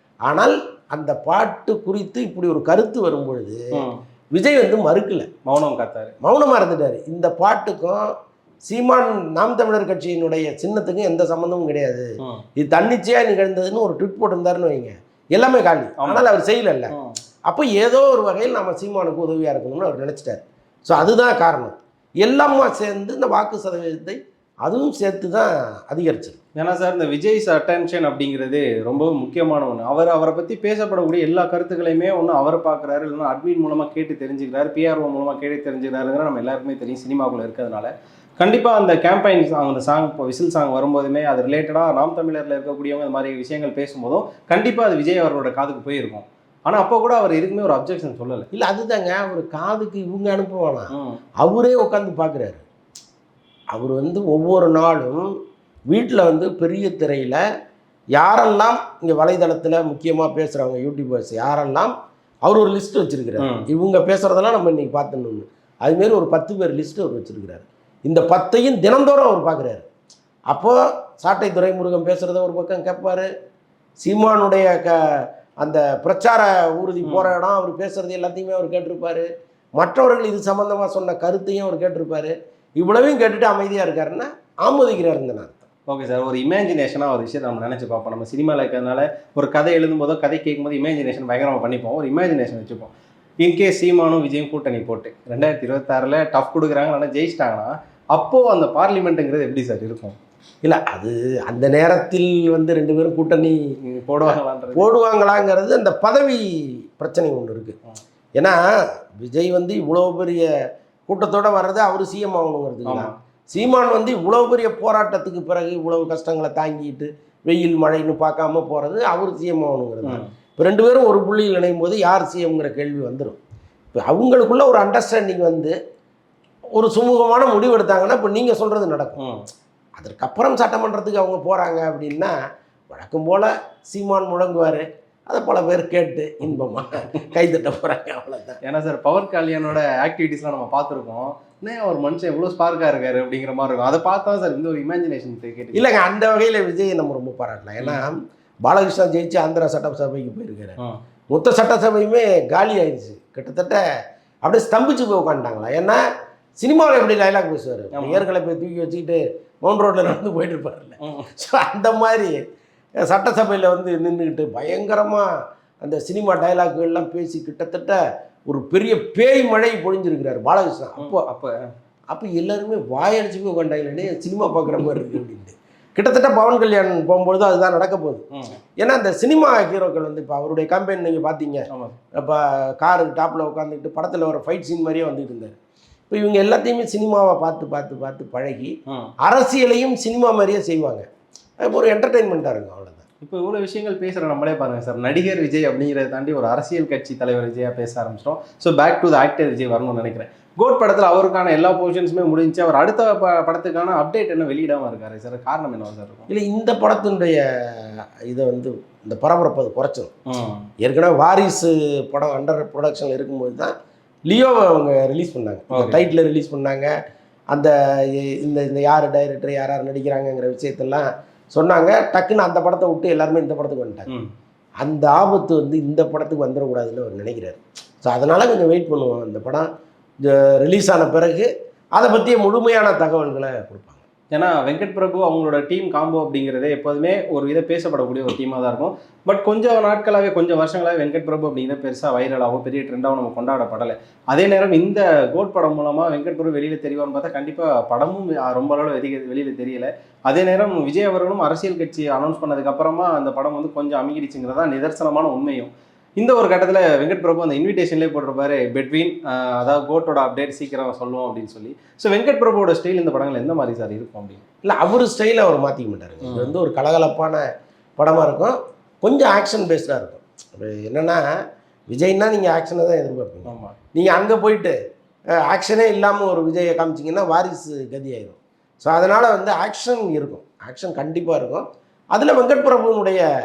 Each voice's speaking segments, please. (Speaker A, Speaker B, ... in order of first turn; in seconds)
Speaker A: 0.3-3.8, 4.3-5.3, 6.2-8.1, 8.7-16.9, 17.5-26.4, 48.5-50.9, 51.4-52.6, 53.7-55.2, 55.9-57.4, 58.2-61.9, 62.5-69.8, 70.5-73.3, 74.0-85.7, 100.6-103.6, 104.2-107.8, 109.2-110.5, 111.1-123.4, 123.9-125.7, 126.8-129.2, 130.0-132.3, 132.9-138.6, 145.7-150.8, 151.3-153.8, 154.4-156.0, 156.6-162.3, 163.0-165.3, 165.8-171.2, 172.1-178.2, 178.8-185.6, 186.1-188.7, 189.2-191.1, 191.6-193.0, 206.3-210.1, 210.8-213.7, 214.3-216.9, 217.5-224.1, 224.8-229.7, 230.2-234.1, 264.6-267.4, 268.0-271.2, 271.9-274.8, 275.4-283.2
Speaker B: 3.7-4.0, 5.5-6.1, 16.0-16.3, 16.9-17.2, 26.6-48.5, 50.9-51.2, 63.4-63.7, 77.0-77.3, 85.9-100.2, 103.8-104.9, 112.8-113.1, 120.0-120.3, 129.2-129.4, 138.6-145.8, 157.9-158.2, 161.0-161.3, 171.0-171.6, 178.3-178.6, 181.7-181.9, 193.2-206.3, 210.3-210.7, 215.7-216.1, 234.3-264.4, 266.2-266.5, 273.4-273.8